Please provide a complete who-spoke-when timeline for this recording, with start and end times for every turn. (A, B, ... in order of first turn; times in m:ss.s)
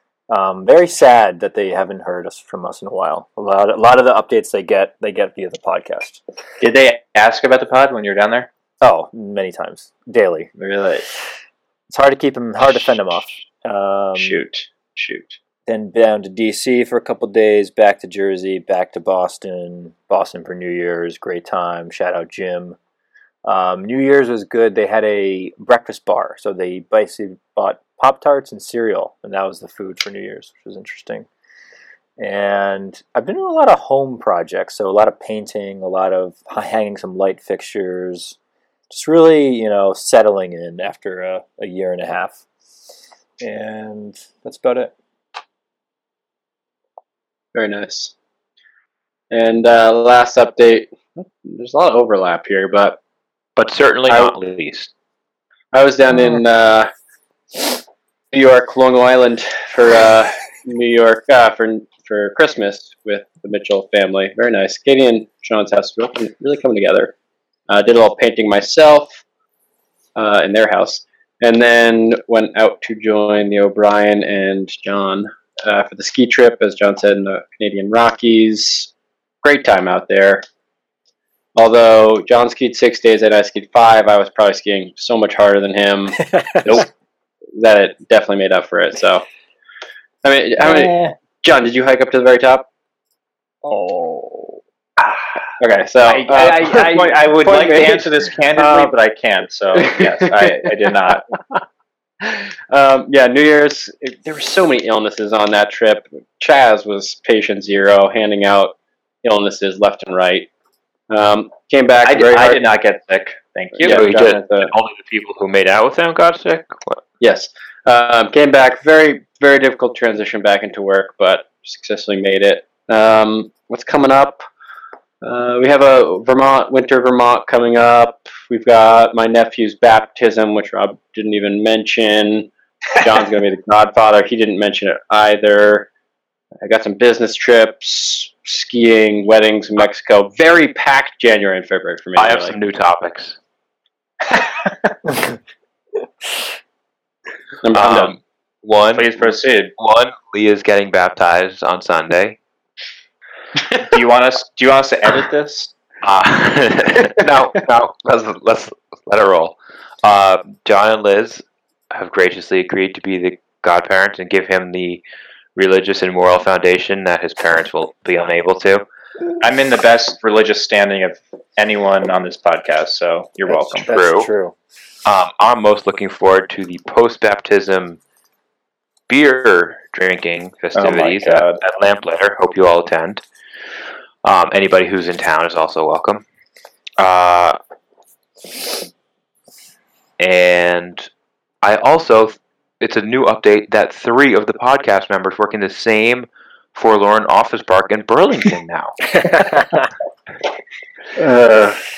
0:00.3-0:06.2 A
0:06.6-0:08.5 B
0:08.8-0:10.5 A
0:10.6-0:11.0 B
0:11.9-0:14.4 A
0:14.2-0:15.4 B
0:15.7-0:22.8 A
0:23.4-0:31.3 A
0:32.2-0:38.4 A
0:38.9-0:42.4 A
0:43.4-0:44.9 A
0:47.5-0:48.1 C
0:49.3-0:53.0 C
0:53.6-0:54.9 D
0:54.1-0:54.4 C
0:55.7-0:56.9 C
0:58.3-1:07.1 C
1:07.7-1:09.2 C
1:10.2-1:18.9 C
1:19.4-1:20.4 C
1:21.6-1:26.9 C
1:27.6-1:29.2 C
1:30.2-1:32.7 C
1:30.6-1:31.1 B
1:33.6-1:34.6 A
1:35.6-1:38.9 C
1:36.0-1:41.3 B
1:39.7-1:40.9 C
1:42.2-1:50.5 C
1:51.1-1:52.6 C
1:52.0-1:54.1 B
1:53.8-1:54.7 C
1:53.8-1:57.0 D
1:57.2-2:04.4 C
2:05.2-2:15.9 C
2:16.6-2:22.6 C
2:22.2-2:23.4 D
2:27.6-2:28.2 C
2:27.7-2:29.2 D
2:28.9-2:29.7 B
2:29.8-2:32.4 D
2:33.8-2:35.7 B
2:36.0-2:45.0 D
2:45.6-2:48.8 D
2:49.4-2:53.9 B
2:53.5-2:54.6 A
2:53.9-2:54.3 D
2:55.1-2:58.0 D
2:59.1-3:03.2 D
3:00.8-3:01.6 B
3:04.2-3:06.2 D
3:07.0-3:07.6 D
3:10.2-3:11.1 D
3:11.6-3:19.0 D
3:19.1-3:19.8 A
3:21.2-3:21.8 B